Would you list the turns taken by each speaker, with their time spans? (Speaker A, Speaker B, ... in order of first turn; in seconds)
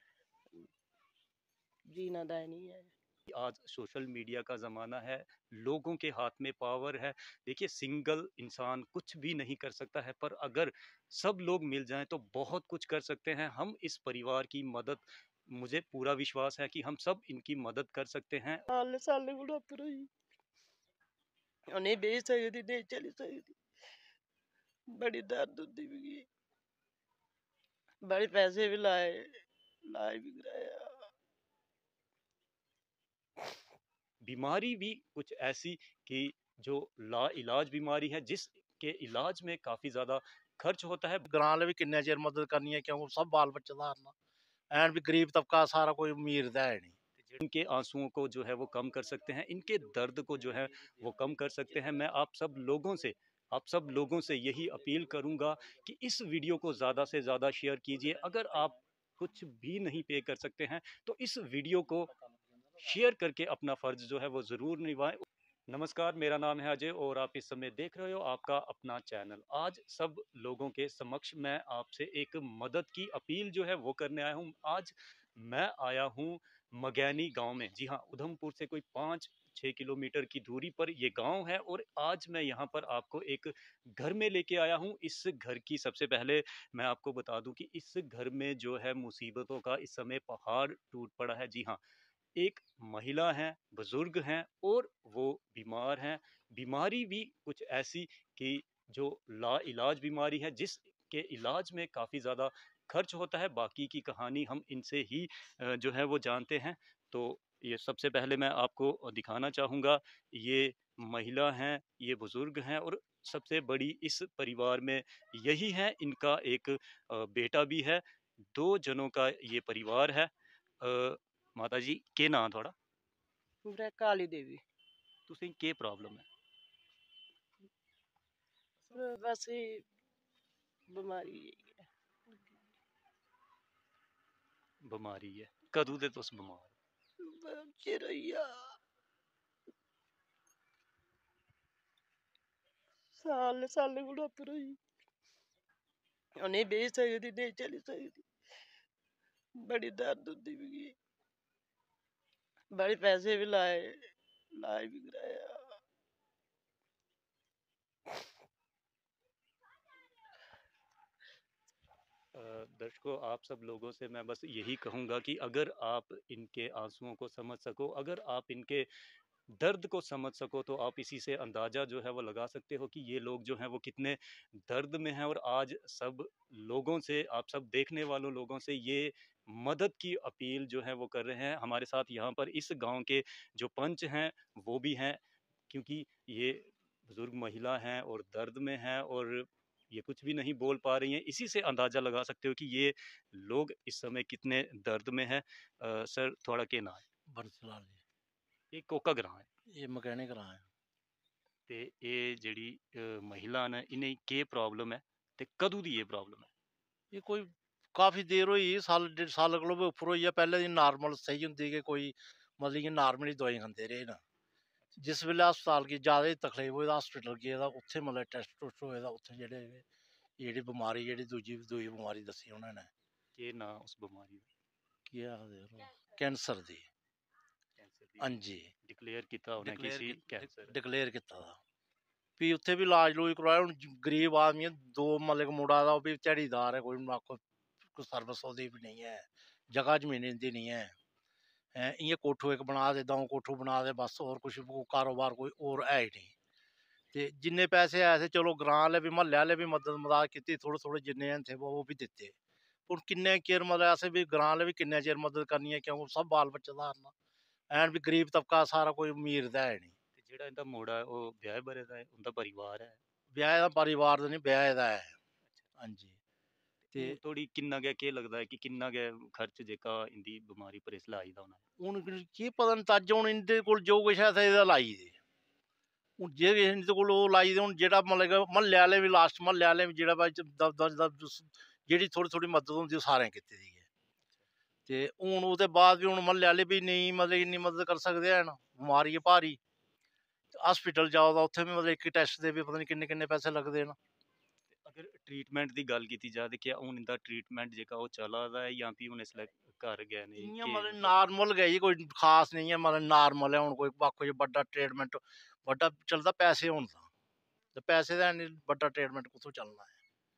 Speaker A: 1.9-2.9, 18.7-20.1, 21.7-23.6, 24.9-26.2, 28.1-31.1, 123.7-124.6, 128.9-129.8, 130.9-132.6, 137.2-138.6, 143.1-144.8, 146.4-148.2, 149.6-150.9, 152.7-155.8
Speaker B: 3.3-18.6, 34.2-41.3, 47.2-62.1, 62.8-91.8, 92.4-120.3, 120.8-122.8, 125.3-126.2, 134.8-136.7, 162.3-168.9, 169.5-197.1, 198.7-199.5, 201.7-206.5, 223.3-224.5, 227.8-230.7, 260.1-263.0, 266.9-271.6, 294.8-301.1
Speaker C: 41.3-44.1, 44.7-46.9, 197.3-198.0, 199.7-200.7, 207.1-214.2, 215.0-219.8, 220.4-222.9, 225.1-226.8, 228.2-228.7, 229.6-231.6, 232.4-237.4, 237.9-240.9, 241.8-246.3, 247.1-252.3, 252.9-257.1, 257.7-259.9, 263.3-265.2, 265.8-266.2, 271.8-275.1, 276.2-283.9, 284.9-289.6, 290.5-293.9, 300.4-307.1, 307.8-309.9